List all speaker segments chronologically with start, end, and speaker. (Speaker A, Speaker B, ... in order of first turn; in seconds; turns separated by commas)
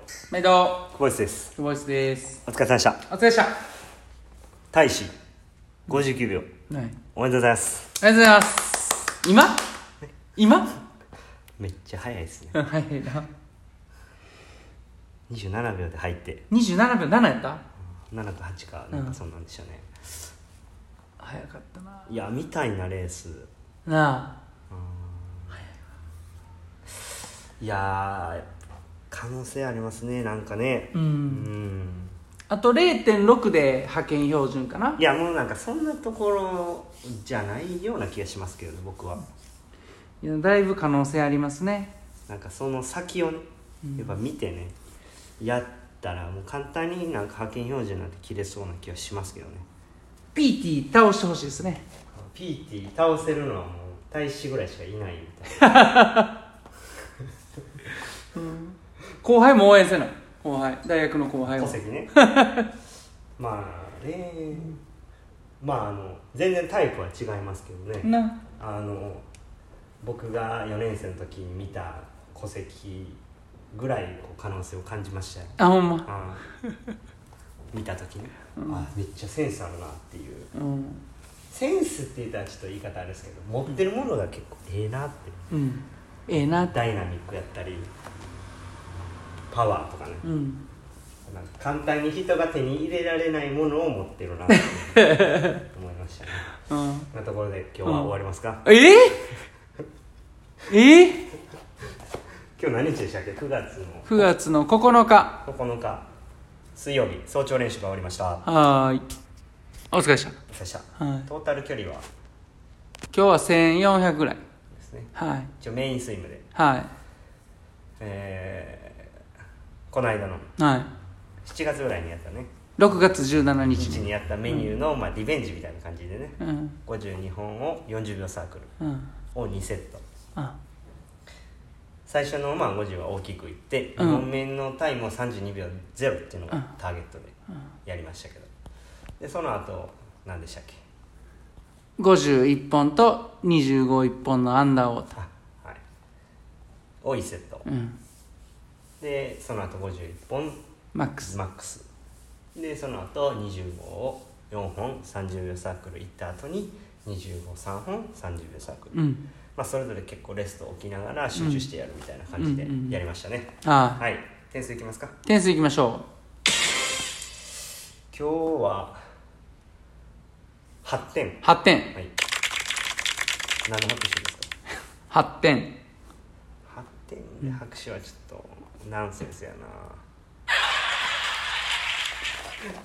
Speaker A: 0.3-0.9, Speaker B: 0.9-1.5, Speaker A: 1.6-2.4, Speaker B: 2.5-3.0, Speaker A: 3.1-3.5, Speaker B: 4.7-5.1, Speaker B: 5.9-6.5, Speaker A: 6.7-7.0, Speaker B: 7.1-8.0, Speaker A: 8.0-9.6, Speaker A: 10.3-10.7, Speaker B: 11.6-12.6, Speaker A: 12.5-13.3, Speaker B: 15.3-16.4, Speaker A: 16.5-17.6, Speaker B: 18.1-19.9, Speaker A: 21.2-22.1, Speaker B: 22.1-23.5, Speaker A: 23.9-24.3, Speaker B: 24.7-25.6, Speaker B: 27.6-28.5, Speaker B: 29.1-32.1, Speaker A: 30.9-31.5, Speaker A: 32.5-35.0, Speaker B: 35.0-39.2, Speaker A: 40.2-41.9, Speaker B: 42.3-43.5, Speaker B: 44.0-44.7, Speaker B: 45.4-49.6, Speaker A: 50.3-51.8, Speaker B: 52.1-55.8, Speaker A: 55.6-56.4, Speaker A: 58.3-62.7, Speaker B: 61.5-62.1, Speaker B: 63.4-64.8, Speaker B: 65.6-69.2, Speaker A: 68.0-68.4, Speaker B: 70.0-73.2, Speaker B: 73.7-76.4, Speaker A: 75.6-76.1, Speaker B: 77.7-80.5, Speaker A: 78.6-78.9, Speaker A: 80.5-81.0, Speaker B: 81.5-85.4, Speaker A: 85.5-86.7, Speaker B: 86.4-87.9, Speaker B: 89.5-90.3, Speaker A: 90.2-90.7, Speaker B: 91.3-96.5, Speaker A: 94.5-95.6, Speaker A: 96.7-97.1, Speaker B: 97.1-98.7, Speaker A: 97.9-98.1, Speaker A: 98.7-99.3, Speaker A: 100.7-101.2, Speaker B: 102.6-104.3, Speaker A: 104.1-105.4, Speaker B: 105.4-106.1, Speaker B: 106.8-108.5, Speaker A: 108.5-109.1, Speaker A: 109.9-110.4, Speaker B: 110.5-112.0, Speaker A: 111.0-111.3, Speaker A: 113.1-114.4, Speaker B: 114.7-116.5, Speaker A: 115.2-115.5, Speaker A: 116.5-116.9, Speaker B: 118.0-119.1, Speaker B: 119.9-120.5, Speaker A: 120.6-120.9, Speaker B: 121.4-122.5, Speaker A: 122.8-124.7, Speaker B: 123.7-128.7, Speaker A: 126.4-126.8, Speaker A: 128.8-129.1, Speaker B: 129.3-130.0, Speaker B: 132.1-137.3, Speaker A: 134.0-134.3, Speaker B: 137.8-138.5, Speaker B: 139.2-140.8, Speaker A: 142.0-145.1, Speaker B: 145.1-145.8, Speaker B: 147.0-147.7, Speaker A: 147.7-148.0, Speaker B: 149.0-150.6, Speaker A: 150.9-151.3, Speaker B: 151.2-151.8, Speaker B: 152.5-159.0, Speaker A: 158.9-159.2, Speaker B: 159.5-165.1, Speaker A: 161.3-161.7, Speaker A: 162.4-163.0, Speaker A: 163.6-164.0, Speaker A: 165.2-166.1, Speaker B: 168.1-169.0, Speaker B: 170.8-172.1, Speaker A: 171.4-171.9, Speaker B: 173.7-174.5, Speaker A: 175.1-175.8, Speaker B: 176.7-180.0